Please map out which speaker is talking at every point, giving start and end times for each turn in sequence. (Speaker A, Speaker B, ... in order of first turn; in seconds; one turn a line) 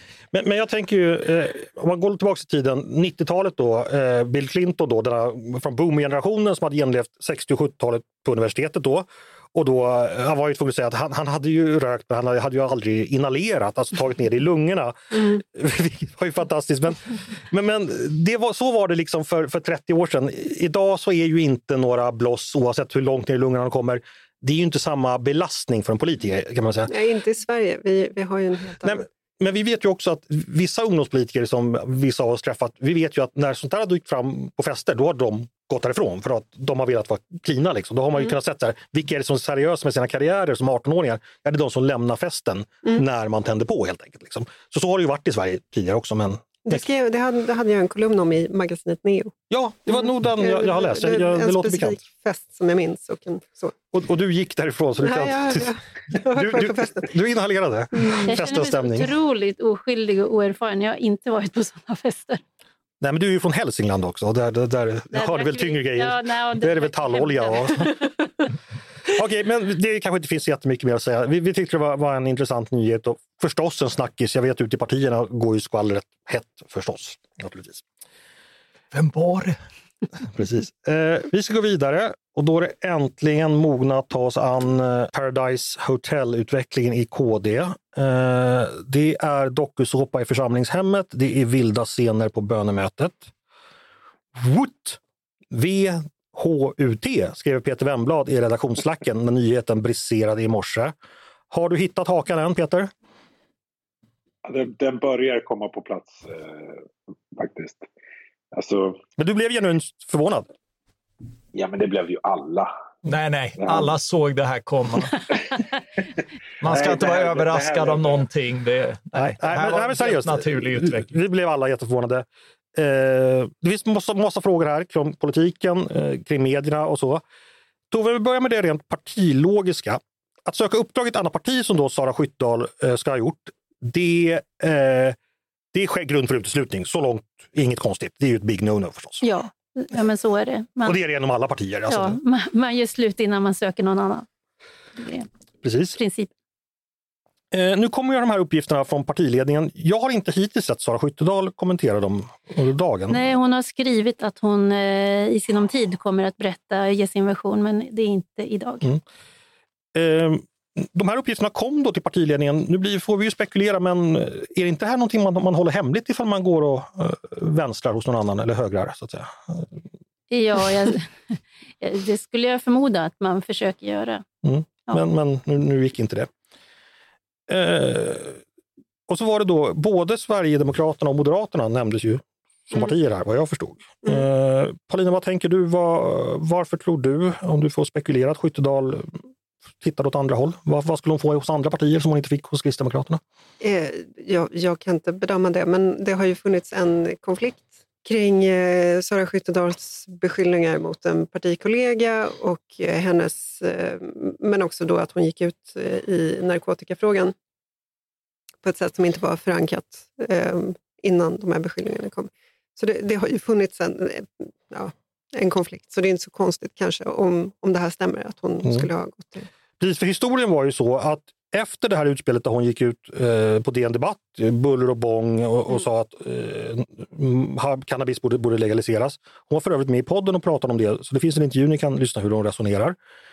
Speaker A: 0.3-26.9
Speaker B: 26.9-29.0
Speaker A: 28.8-46.8
Speaker B: 46.6-49.4
Speaker A: 49.5-52.0
Speaker B: 49.9-53.8
Speaker A: 53.9-55.7
Speaker B: 55.0-57.1
Speaker A: 56.3-59.1
Speaker C: 58.2-62.4
Speaker A: 63.0-68.0
Speaker C: 65.1-68.1
Speaker A: 69.1-77.8
Speaker D: 78.9-79.6
Speaker A: 80.3-93.3
Speaker A: 94.3-95.0
Speaker A: 95.5-100.9
Speaker A: 101.5-102.9
Speaker E: 104.5-106.8
Speaker E: 107.3-107.9
Speaker E: 108.5-109.0
Speaker A: 109.2-110.5
Speaker E: 111.5-112.7
Speaker D: 113.0-115.2
Speaker E: 113.6-113.9
Speaker D: 116.6-121.1
Speaker E: 116.6-118.3
Speaker A: 119.2-127.2
Speaker A: 127.9-135.2
Speaker A: 135.7-139.3
Speaker C: 139.2-141.0
Speaker A: 140.8-142.2
Speaker C: 141.9-144.3
Speaker C: 145.0-145.3
Speaker A: 145.6-146.0
Speaker C: 145.9-146.3
Speaker A: 147.5-153.3
Speaker C: 153.1-158.9
Speaker A: 159.9-169.8
Speaker C: 170.3-174.2
Speaker A: 174.4-176.3
Speaker A: 177.5-178.4
Speaker A: 179.1-189.2
Speaker A: 189.8-193.2
Speaker B: 193.6-207.3
Speaker B: 208.6-219.5
Speaker A: 218.6-218.9
Speaker A: 219.8-233.0